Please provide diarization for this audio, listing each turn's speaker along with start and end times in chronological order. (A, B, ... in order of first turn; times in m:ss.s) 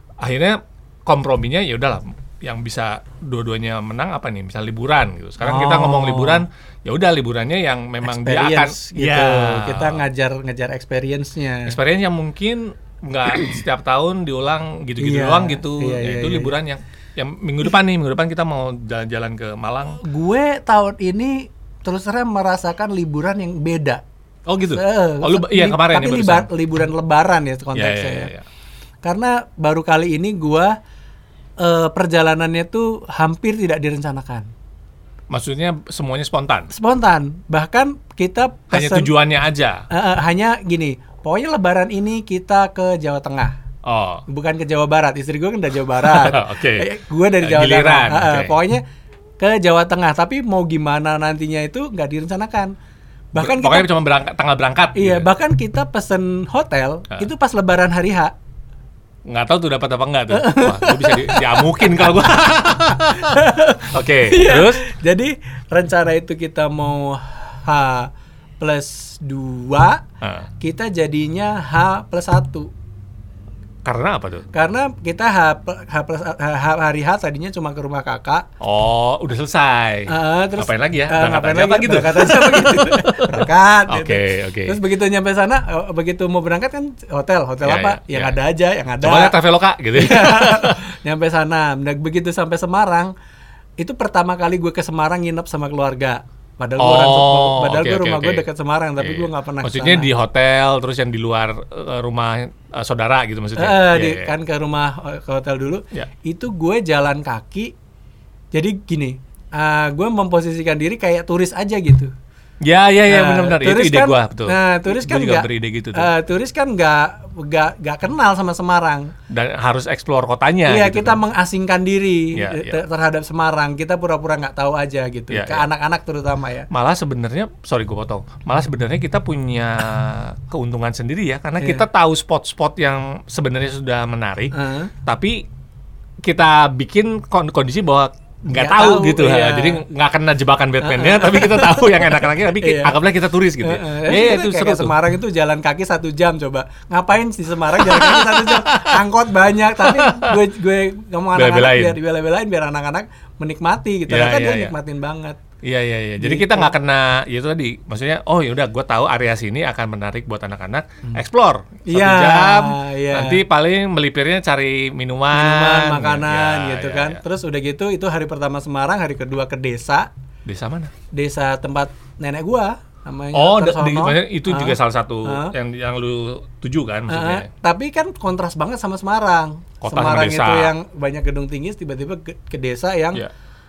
0:00.2-0:10.0 A
0:05.4-0:06.4 B
0:08.0-0:11.8 B
0:11.6-0:20.0 A
0:15.0-0:16.5 B
0:20.0-0:24.0 B
0:24.5-0:26.5 A
0:24.7-0:28.3 B
0:27.8-0:28.4 A
0:29.0-0:30.8 B
0:31.6-0:34.5 B
0:35.3-0:36.7 A
0:36.7-0:39.1 B
0:38.7-0:39.8 A
0:39.9-0:43.5 B
0:43.8-0:44.2 A
0:44.3-0:48.8 B
0:46.0-0:46.9 A
0:47.4-0:48.6 A
0:49.4-0:52.7 B
0:53.3-0:53.9 B
0:53.4-0:55.3 A
0:54.9-0:58.3 B
0:59.2-1:04.8 A
1:00.3-1:02.3 B
1:03.0-1:10.0 B
1:10.2-1:10.5 A
1:10.6-1:12.7 B
1:13.8-1:14.5 A
1:14.5-1:18.5 B
1:18.6-1:24.8 A
1:20.1-1:29.4 B
1:27.6-1:28.4 A
1:29.0-1:30.8 A
1:29.9-1:33.1 B
1:33.8-1:40.1 B
1:36.8-1:38.5 A
1:39.0-1:44.3 A
1:43.6-1:47.7 B
1:48.5-1:52.1 B
1:52.6-1:56.1 A
1:53.1-1:59.1 B
1:59.3-2:01.2 A
2:00.7-2:06.7 B
2:02.3-2:02.8 A
2:05.3-2:05.7 A
2:06.7-2:14.5 A
2:11.6-2:11.8 B
2:14.5-2:14.9 B
2:15.0-2:15.5 A
2:16.2-2:25.0 A
2:18.5-2:19.8 B
2:20.8-2:23.0 B
2:23.6-2:35.4 B
2:27.8-2:29.0 A
2:29.8-2:30.4 A
2:31.3-2:32.0 A
2:34.1-2:34.8 A
2:35.6-2:47.2 A
2:36.2-2:36.7 B
2:41.9-2:43.4 B
2:45.3-2:50.1 B
2:50.5-2:50.9 A
2:51.1-2:55.5 B
2:53.3-2:57.5 A
2:57.1-3:03.2 B
2:59.8-3:00.7 A